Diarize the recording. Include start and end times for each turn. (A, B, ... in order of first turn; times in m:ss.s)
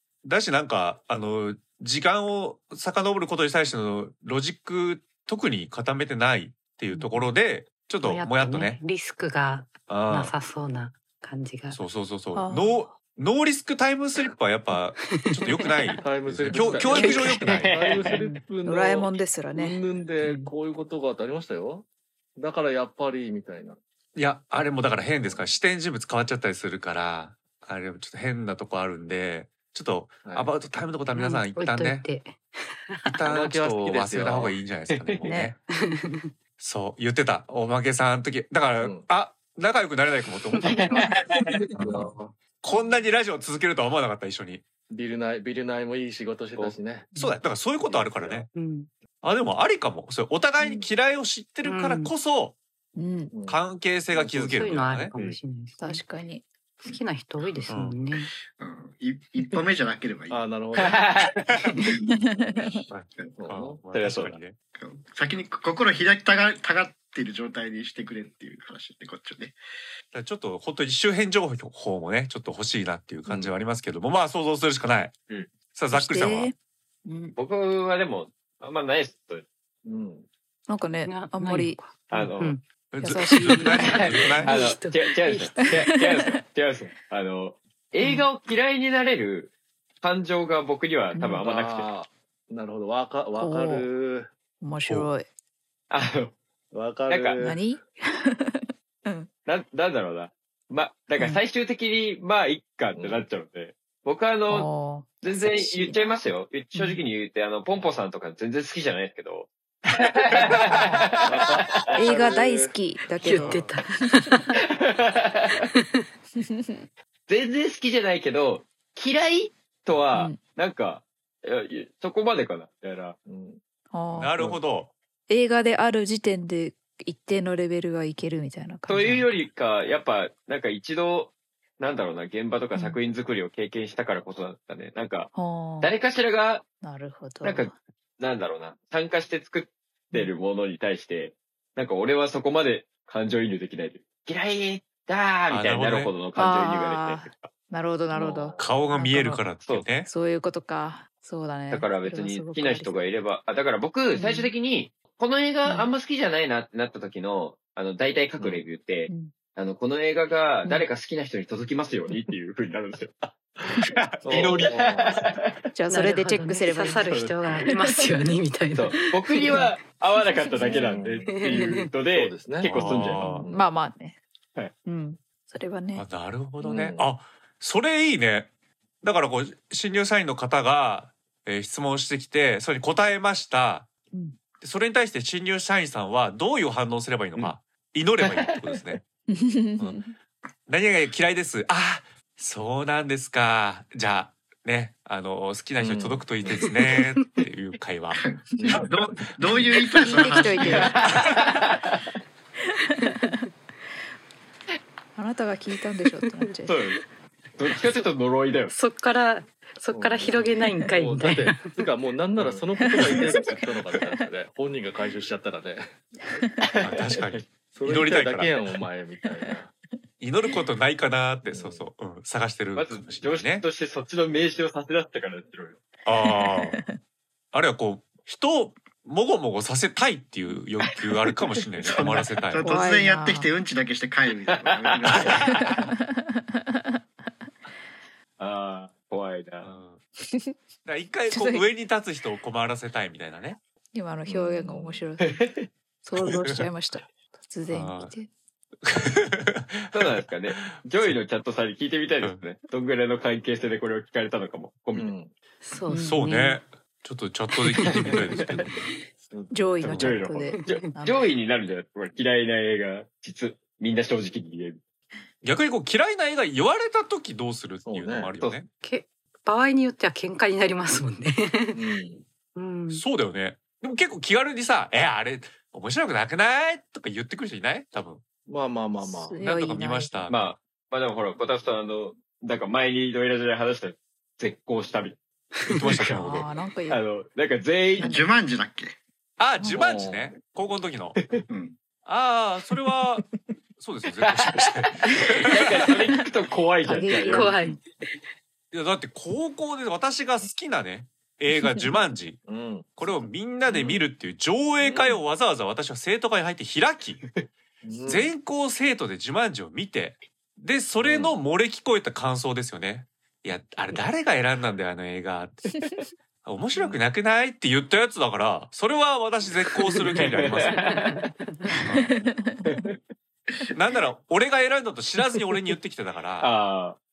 0:00.2-0:08.8 A
0:06.9-0:07.3 B
0:08.0-0:11.8 C
0:09.9-0:10.3 A
0:11.7-0:17.7 A
0:12.3-0:13.0 B
0:15.2-0:16.0 C
0:16.0-0:23.8 D
0:16.5-0:17.4 B
0:17.4-0:18.2 E
0:18.0-0:19.8 B
0:20.2-0:20.5 C
0:24.1-0:32.0 A
0:24.9-0:25.4 D
0:30.2-0:30.5 D
0:31.1-0:33.2 C
0:33.0-0:35.6 A
0:33.2-0:34.6 D
0:34.9-0:35.2 E
0:35.2-0:35.5 B
0:35.7-0:36.3 C
0:36.6-0:41.1 A
0:38.8-0:39.1 D
0:40.6-0:41.5 E
0:41.6-0:42.3 D
0:41.8-0:42.1 A
0:42.6-0:44.6 A
0:44.9-0:47.1 D
0:47.1-0:47.4 B
0:47.1-0:48.5 A
0:47.8-0:48.5 D
0:48.5-0:48.9 C
0:49.2-0:52.6 A
0:50.6-0:50.9 D
0:51.6-0:52.1 C
0:53.0-0:53.3 B
0:53.3-0:53.6 D
0:53.5-0:55.1 A
0:54.1-0:54.6 D
0:54.4-0:56.0 C
0:55.8-0:56.4 B
0:56.8-0:58.3 C
0:57.7-0:58.0 A
0:58.5-1:00.4 F
1:00.3-1:01.1 D
1:00.8-1:01.4 E
1:01.8-1:02.8 B
1:02.3-1:03.3 F
1:02.9-1:04.6 A
1:03.4-1:03.8 D
1:03.9-1:04.4 E
1:04.7-1:09.6 F
1:10.1-1:15.1 A
1:15.7-1:16.5 A
1:15.9-1:16.5 B
1:17.0-1:17.4 B
1:17.4-1:19.4 E
1:19.8-1:20.3 D
1:20.7-1:21.8 B
1:21.0-1:22.6 C
1:22.1-1:22.6 E
1:22.9-1:24.5 A
1:23.0-1:24.5 B
1:23.4-1:25.7 C
1:23.8-1:31.9 E
1:25.8-1:26.2 B
1:28.0-1:28.2 B
1:31.2-1:31.4 B
1:31.4-1:34.3 D
1:33.4-1:33.9 B
1:34.6-1:35.2 B
1:35.9-1:36.3 E
1:36.7-1:37.6 D
1:37.1-1:37.4 E
1:37.4-1:39.3 B
1:39.4-1:44.7 E
1:43.0-1:43.2 D
1:44.5-1:46.2 B
1:45.2-1:52.1 E
1:46.7-1:47.0 B
1:50.4-1:50.7 A
1:51.2-1:52.7 D
1:51.9-1:54.4 B
1:53.2-1:54.5 C
1:54.6-1:55.7 E
1:56.4-1:56.8 B
1:57.3-2:03.2 E
2:00.1-2:00.4 B
2:03.2-2:03.6 D
2:03.9-2:04.5 B
2:04.1-2:04.9 A
2:05.3-2:09.3 B
2:08.9-2:16.6 E
2:15.3-2:15.9 B
2:16.8-2:17.7 B
2:17.4-2:27.5 E
2:25.5-2:26.2 A
2:26.3-2:29.4 B
2:28.1-2:28.5 E
2:28.1-2:28.8 D
2:28.6-2:30.1 A
2:29.6-2:29.9 E
2:30.0-2:33.1 B
2:31.7-2:43.1 E
2:34.1-2:34.5 B
2:38.4-2:38.6 D
2:39.1-2:39.3 B
2:44.2-2:45.2 D
2:44.3-2:45.5 E
2:45.7-2:47.1 B
2:45.9-2:49.6 C
2:47.0-2:47.6 E
2:47.7-2:48.0 B
2:48.7-2:53.4 E
2:50.4-2:51.9 C
2:50.6-2:53.7 D
2:52.6-2:53.5 A
2:53.5-2:54.2 B
2:54.8-2:56.0 B
2:55.9-2:58.5 A
2:56.6-2:57.1 D
2:59.0-3:03.9 A
3:04.1-3:04.4 B
3:04.6-3:09.0 A
3:08.2-3:08.8 E
3:09.3-3:10.1 B
3:10.7-3:18.8 A
3:15.8-3:16.8 D
3:18.1-3:21.0 F
3:18.6-3:18.9 D
3:20.0-3:21.1 B
3:20.6-3:22.0 E
3:22.8-3:23.4 B
3:25.2-3:26.8 B
3:26.7-3:27.0 E
3:27.6-3:28.7 E
3:28.7-3:31.7 C
3:29.9-3:35.9 D
3:32.8-3:34.2 B
3:33.0-3:33.5 E
3:36.6-3:37.4 E
3:36.8-3:38.6 A
3:37.7-3:39.7 D
3:40.2-3:43.6 A
3:41.4-3:41.8 D
3:42.7-3:45.8 E
3:46.0-3:46.8 A
3:46.2-3:47.0 B
3:47.5-3:52.7 A
3:50.9-3:51.4 E
3:51.8-3:55.8 F
3:52.6-3:53.5 B
3:54.6-3:55.7 E
3:55.3-3:57.0 B
3:58.4-3:59.7 E
3:59.6-4:00.0 A
4:00.2-4:00.5 B
4:00.8-4:03.6 A
4:01.3-4:01.7 B
4:03.9-4:05.4 B
4:04.3-4:05.0 D
4:05.2-4:05.7 E
4:06.0-4:08.3 B
4:06.2-4:06.6 A
4:07.7-4:08.1 A
4:08.8-4:11.2 A
4:09.9-4:15.1 E
4:14.9-4:15.3 D
4:15.6-4:16.6 C
4:15.9-4:16.2 B
4:15.9-4:18.9 A
4:17.5-4:18.2 C
4:17.9-4:18.5 E
4:19.2-4:20.1 D
4:19.5-4:21.3 B
4:19.8-4:24.8 E
4:19.9-4:20.2 A
4:20.6-4:20.9 C
4:25.4-4:28.7 A
4:27.8-4:28.3 D
4:28.8-4:31.8 C
4:31.7-4:32.2 D
4:32.5-4:33.0 C
4:32.9-4:38.2 A
4:38.4-4:39.4 D
4:39.0-4:40.1 B
4:39.4-4:40.4 A
4:40.3-4:48.1 E
4:45.7-4:46.5 A
4:46.1-4:47.0 B
4:48.0-4:49.0 F
4:48.0-4:48.3 B
4:49.4-4:51.2 A
4:49.6-4:49.9 B
4:49.7-4:50.4 D
4:51.5-4:51.8 F
4:52.0-4:53.2 A
4:53.8-4:56.0 A
4:54.2-4:57.5 E
4:56.8-4:57.6 B
4:57.2-4:57.8 C
4:58.7-5:02.4 A
5:02.4-5:02.9 D
5:03.0-5:07.2 A
5:03.7-5:04.0 D
5:04.8-5:05.2 D
5:07.8-5:08.3 D
5:08.1-5:15.7 A
5:11.0-5:11.3 D
5:16.4-5:20.8 A
5:19.9-5:21.3 E
5:21.8-5:22.2 A
5:21.9-5:22.8 B
5:22.6-5:23.0 E
5:23.7-5:26.5 A
5:26.4-5:27.0 E